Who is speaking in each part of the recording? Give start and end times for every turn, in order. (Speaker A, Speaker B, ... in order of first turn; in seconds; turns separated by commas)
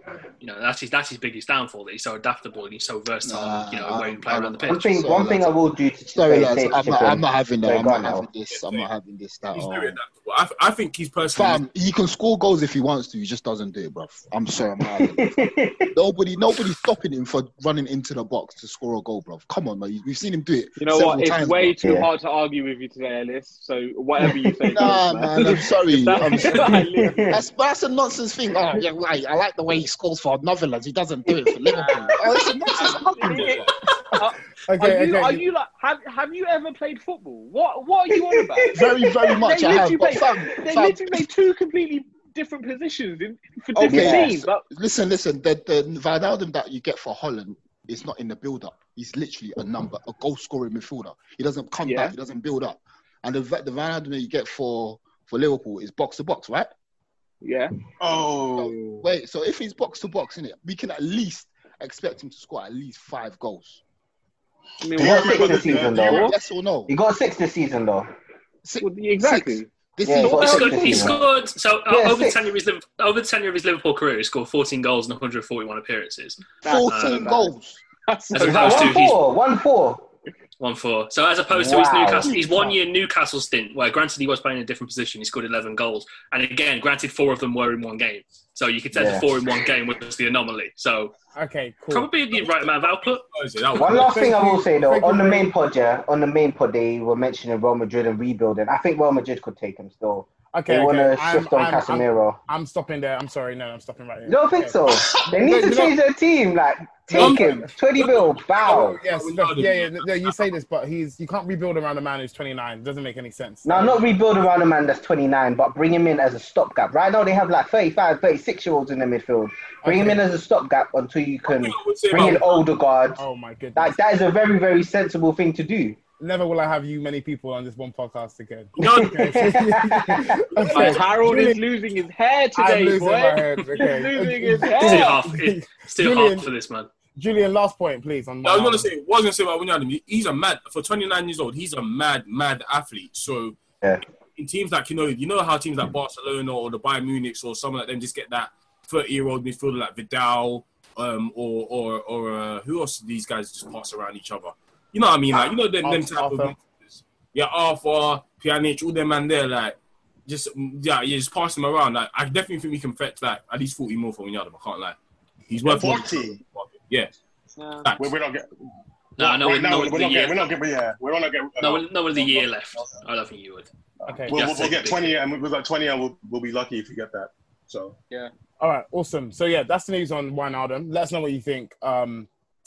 Speaker A: 0.4-5.0, Speaker B: 3.2-5.5, Speaker C: 4.6-8.3, Speaker B: 6.1-10.0, Speaker D: 8.5-8.9, Speaker D: 9.4-11.7, Speaker B: 11.3-15.4, Speaker C: 15.0-15.9, Speaker B: 15.9-21.9, Speaker E: 20.8-27.3, Speaker C: 21.8-22.1, Speaker C: 24.2-25.5, Speaker B: 24.7-33.7, Speaker C: 26.3-27.4, Speaker E: 31.7-44.6, Speaker F: 34.7-35.4, Speaker C: 38.1-39.4, Speaker B: 38.7-41.3, Speaker B: 43.7-56.7, Speaker C: 43.8-44.4, Speaker E: 51.8-52.1, Speaker E: 57.4-57.7, Speaker G: 58.0-59.0, Speaker B: 58.5-63.8, Speaker E: 64.8-66.3, Speaker G: 64.9-66.3, Speaker C: 64.9-66.3, Speaker B: 65.8-66.9, Speaker C: 66.9-68.1, Speaker B: 68.6-71.2, Speaker E: 68.8-69.7, Speaker C: 70.0-71.2, Speaker A: 70.2-77.3, Speaker C: 71.9-72.4, Speaker E: 76.6-77.5, Speaker B: 76.6-77.8, Speaker E: 78.1-79.0, Speaker A: 78.3-79.2, Speaker C: 78.4-80.1, Speaker A: 80.6-91.1, Speaker C: 81.5-82.7, Speaker C: 88.9-89.3, Speaker F: 91.4-92.1, Speaker A: 91.9-93.2, Speaker D: 92.3-94.3, Speaker C: 93.8-102.4, Speaker F: 93.9-95.5, Speaker F: 100.5-106.0, Speaker C: 104.3-109.0, Speaker F: 107.1-107.7, Speaker D: 107.1-110.5, Speaker F: 108.6-114.0, Speaker C: 113.6-123.2, Speaker F: 119.8-120.2, Speaker D: 121.5-122.7, Speaker F: 123.2-124.0, Speaker C: 123.7-126.0, Speaker F: 126.2-131.6, Speaker D: 128.8-129.5, Speaker C: 128.8-130.7, Speaker D: 130.7-131.1, Speaker E: 130.7-135.2, Speaker F: 132.6-136.5, Speaker A: 134.8-136.9, Speaker F: 137.2-138.9, Speaker D: 138.4-143.6, Speaker D: 144.3-165.0, Speaker F: 155.3-156.6, Speaker D: 165.5-167.1, Speaker G: 165.7-166.4, Speaker E: 167.6-167.9, Speaker D: 167.8-168.1, Speaker G: 168.0-168.5, Speaker A: 169.2-170.5, Speaker G: 169.2-173.1, Speaker A: 171.6-173.7, Speaker G: 174.0-178.0, Speaker F: 174.1-174.4, Speaker A: 174.3-175.1, Speaker F: 178.6-182.3